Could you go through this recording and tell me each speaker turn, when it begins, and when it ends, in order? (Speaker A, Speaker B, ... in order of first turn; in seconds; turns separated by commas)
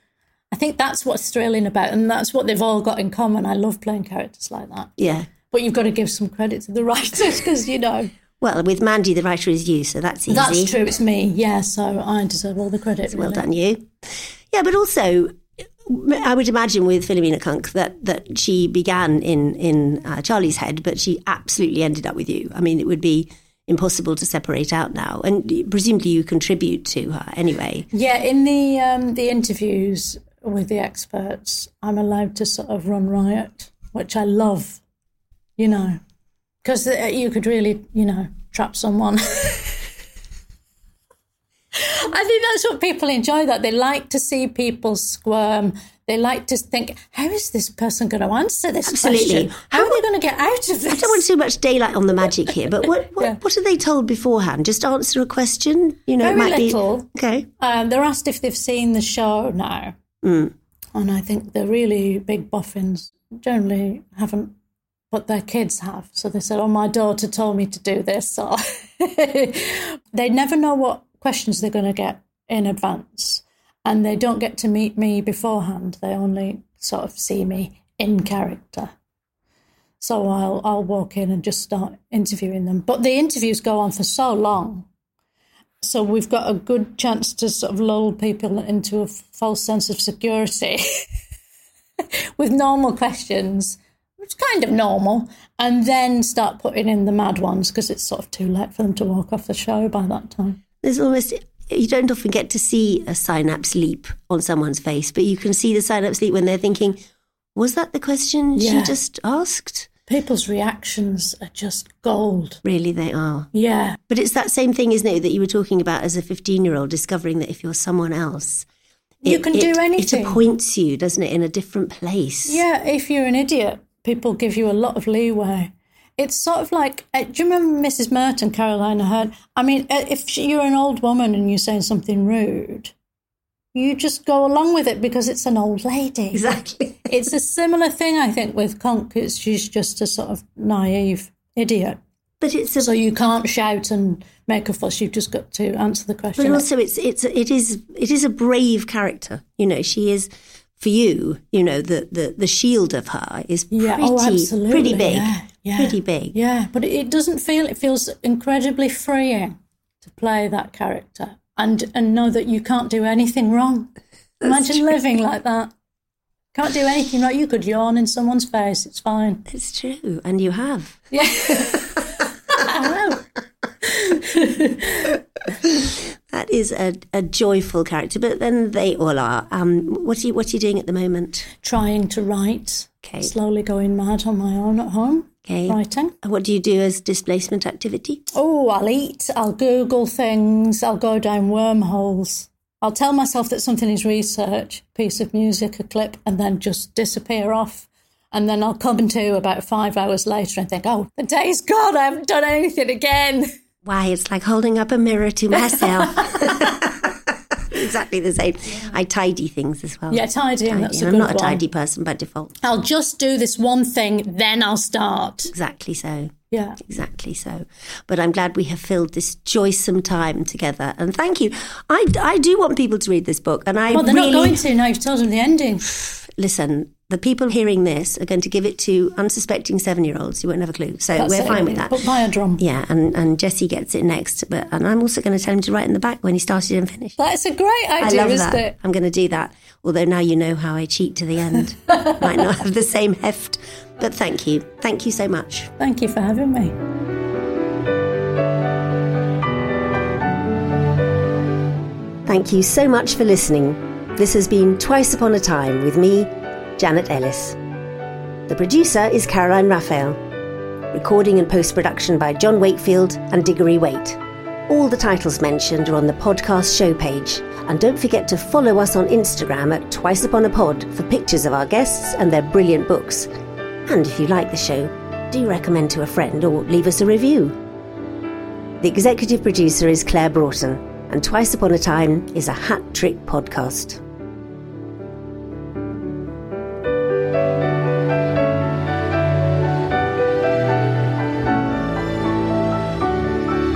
Speaker A: 0.5-4.9, Speaker B: 5.0-5.3, Speaker A: 5.5-8.1, Speaker B: 8.4-10.8, Speaker A: 10.3-13.4, Speaker B: 13.1-13.9, Speaker B: 14.5-27.9, Speaker A: 27.9-34.8, Speaker A: 35.6-36.0, Speaker A: 36.6-39.9, Speaker A: 41.7-51.2, Speaker B: 48.8-50.0, Speaker B: 50.9-57.5, Speaker A: 56.2-57.1, Speaker A: 57.6-60.0, Speaker B: 60.2-60.5, Speaker A: 60.9-64.5, Speaker A: 65.1-78.9, Speaker A: 80.0-84.8, Speaker A: 85.8-91.0, Speaker A: 92.4-100.6, Speaker B: 100.8-107.0, Speaker B: 107.5-109.9, Speaker A: 108.5-109.0, Speaker A: 110.1-112.6, Speaker B: 112.6-113.5, Speaker A: 113.5-114.0, Speaker B: 114.1-118.7, Speaker B: 119.2-122.6, Speaker A: 119.2-120.4, Speaker A: 122.5-132.9, Speaker A: 133.7-136.4, Speaker B: 136.3-137.2, Speaker A: 137.1-142.0, Speaker B: 142.4-142.9, Speaker A: 142.8-146.7, Speaker B: 146.3-156.3, Speaker A: 153.7-163.9, Speaker B: 164.4-164.8, Speaker A: 164.4-165.7, Speaker A: 166.5-169.4, Speaker B: 169.5-172.0, Speaker A: 171.1-173.2, Speaker A: 173.8-175.2, Speaker B: 175.7-181.5, Speaker A: 181.6-186.2, Speaker B: 183.0-183.3, Speaker B: 185.5-188.2, Speaker A: 188.3-203.5, Speaker B: 203.8-212.5, Speaker A: 205.6-206.7, Speaker A: 210.1-211.6, Speaker A: 212.6-215.5, Speaker B: 215.5-224.6, Speaker A: 216.5-216.8, Speaker A: 223.9-225.9, Speaker B: 226.0-232.0, Speaker A: 231.2-232.6, Speaker B: 232.6-237.2, Speaker A: 237.2-238.8, Speaker B: 238.0-245.7, Speaker A: 245.8-246.8, Speaker B: 252.2-257.6, Speaker B: 258.5-260.2, Speaker B: 260.9-273.3, Speaker B: 273.9-277.6, Speaker B: 278.8-284.0